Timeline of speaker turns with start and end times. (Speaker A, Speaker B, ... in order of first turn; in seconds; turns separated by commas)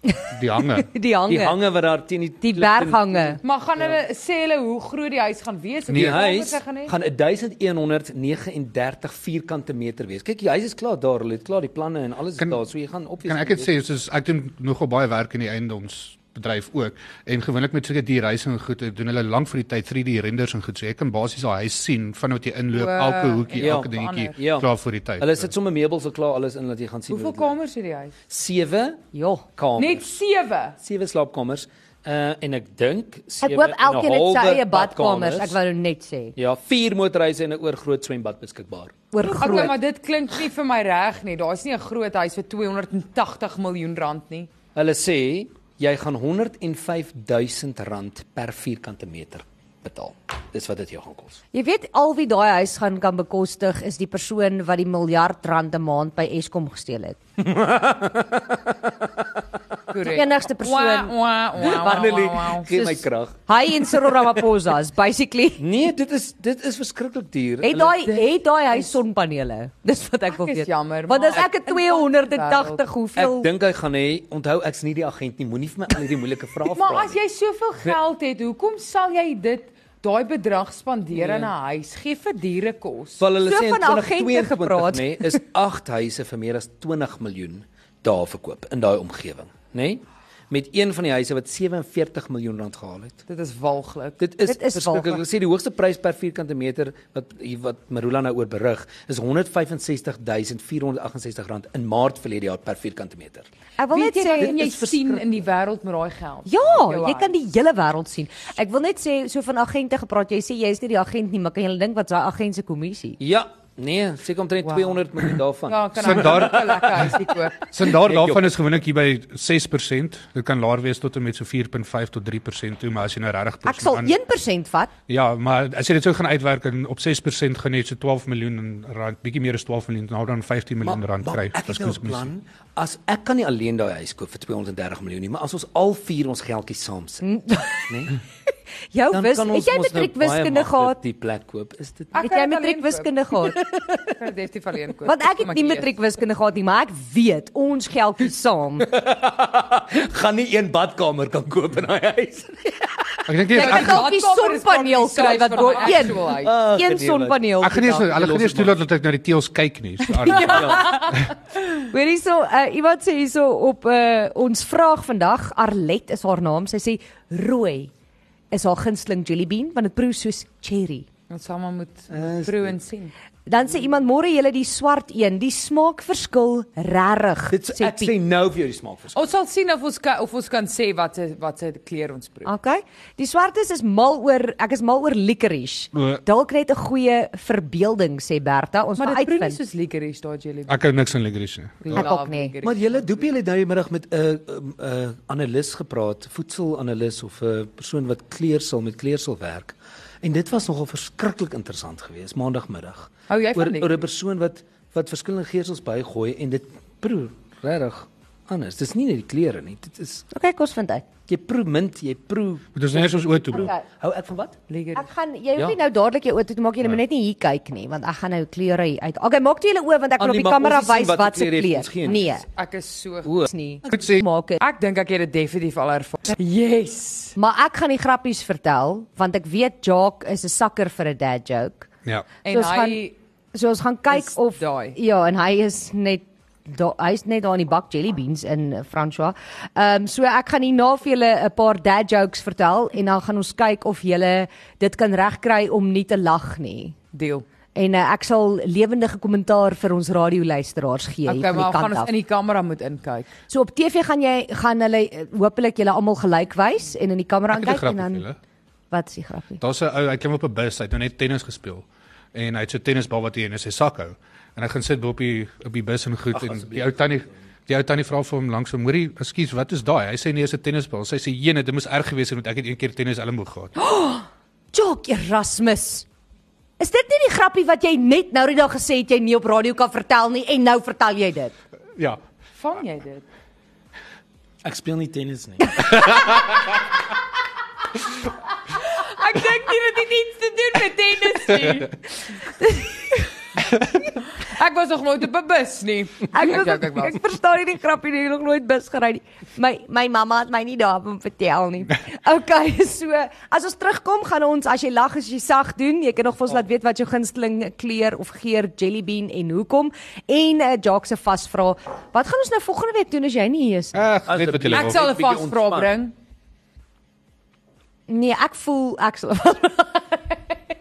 Speaker A: 0.1-1.6, Speaker B: 0.3-0.9, Speaker C: 1.3-4.0, Speaker A: 2.4-3.4, Speaker D: 3.4-6.9, Speaker B: 5.9-6.2, Speaker C: 5.9-13.7, Speaker B: 13.2-25.5, Speaker D: 22.7-24.4, Speaker C: 23.6-24.7, Speaker C: 25.2-27.6, Speaker D: 27.1-28.1, Speaker C: 28.3-29.0, Speaker A: 29.1-29.5, Speaker C: 29.6-30.1, Speaker D: 29.8-30.8, Speaker C: 30.8-35.6, Speaker A: 33.4-36.3, Speaker C: 36.4-39.7, Speaker A: 39.1-39.8, Speaker D: 39.2-44.5, Speaker C: 44.7-51.4, Speaker A: 51.5-57.2, Speaker C: 57.4-58.7, Speaker D: 59.9-62.7, Speaker A: 60.0-61.1, Speaker C: 61.6-63.4, Speaker A: 62.7-65.7, Speaker C: 65.6-68.0, Speaker A: 67.6-73.5, Speaker D: 68.1-68.9, Speaker D: 70.3-72.8, Speaker C: 73.2-77.2, Speaker D: 76.7-83.2, Speaker C: 81.1-81.5, Speaker C: 83.2-93.2, Speaker A: 83.4-85.4, Speaker D: 93.3-94.2, Speaker C: 94.2-103.5, Speaker A: 94.4-95.2, Speaker A: 103.8-104.6, Speaker D: 103.9-107.3, Speaker C: 104.4-105.5, Speaker A: 106.5-113.2, Speaker C: 113.2-117.2, Speaker D: 114.6-115.0, Speaker D: 115.6-117.6, Speaker B: 116.0-124.1, Speaker C: 117.8-118.5, Speaker A: 123.7-124.9, Speaker B: 125.1-132.3, Speaker C: 130.8-137.2, Speaker A: 137.2-138.1, Speaker C: 137.9-138.2, Speaker A: 138.9-141.0, Speaker C: 139.1-142.2, Speaker D: 142.1-143.1, Speaker A: 142.2-143.6, Speaker D: 144.1-145.9, Speaker A: 145.1-148.9, Speaker C: 148.9-153.1, Speaker B: 153.3-154.1, Speaker D: 153.5-156.5, Speaker A: 153.5-158.1, Speaker C: 156.2-157.4, Speaker B: 157.6-161.0, Speaker C: 157.9-158.7, Speaker D: 160.3-161.1, Speaker C: 160.3-160.9, Speaker A: 160.7-161.1, Speaker A: 161.8-167.9, Speaker A: 168.5-171.1, Speaker D: 171.3-173.1, Speaker C: 172.1-172.8, Speaker A: 173.4-178.1, Speaker C: 177.5-179.2, Speaker D: 179.1-182.5, Speaker A: 182.4-189.6, Speaker D: 189.0-190.8, Speaker B: 190.7-192.1, Speaker D: 191.8-193.2, Speaker A: 191.9-192.5, Speaker C: 192.6-210.2, Speaker D: 203.3-204.0, Speaker A: 210.3-211.0, Speaker C: 211.3-214.6, Speaker B: 212.8-213.7, Speaker A: 213.5-213.8, Speaker D: 214.7-215.1, Speaker A: 214.9-222.4, Speaker C: 220.2-222.3, Speaker D: 222.5-223.4, Speaker C: 223.2-223.5, Speaker A: 223.4-224.6, Speaker B: 223.9-224.2, Speaker D: 224.6-227.3, Speaker A: 227.4-231.9, Speaker D: 232.4-233.1, Speaker A: 232.5-247.0, Speaker D: 234.1-235.0, Speaker D: 247.1-247.4, Speaker A: 247.7-252.1, Speaker D: 251.2-253.3, Speaker A: 253.5-258.2, Speaker B: 257.5-258.4, Speaker A: 258.9-259.6, Speaker B: 259.6-273.7, Speaker C: 266.4-267.1, Speaker A: 273.8-276.1, Speaker A: 276.8-281.5, Speaker D: 282.6-283.2, Speaker C: 284.6-285.8, Speaker D: 288.8-292.0, Speaker A: 292.6-293.0, Speaker D: 294.4-297.1, Speaker A: 296.3-314.1, Speaker B: 313.9-314.9, Speaker C: 314.3-315.9, Speaker D: 314.7-316.1, Speaker A: 318.1-320.5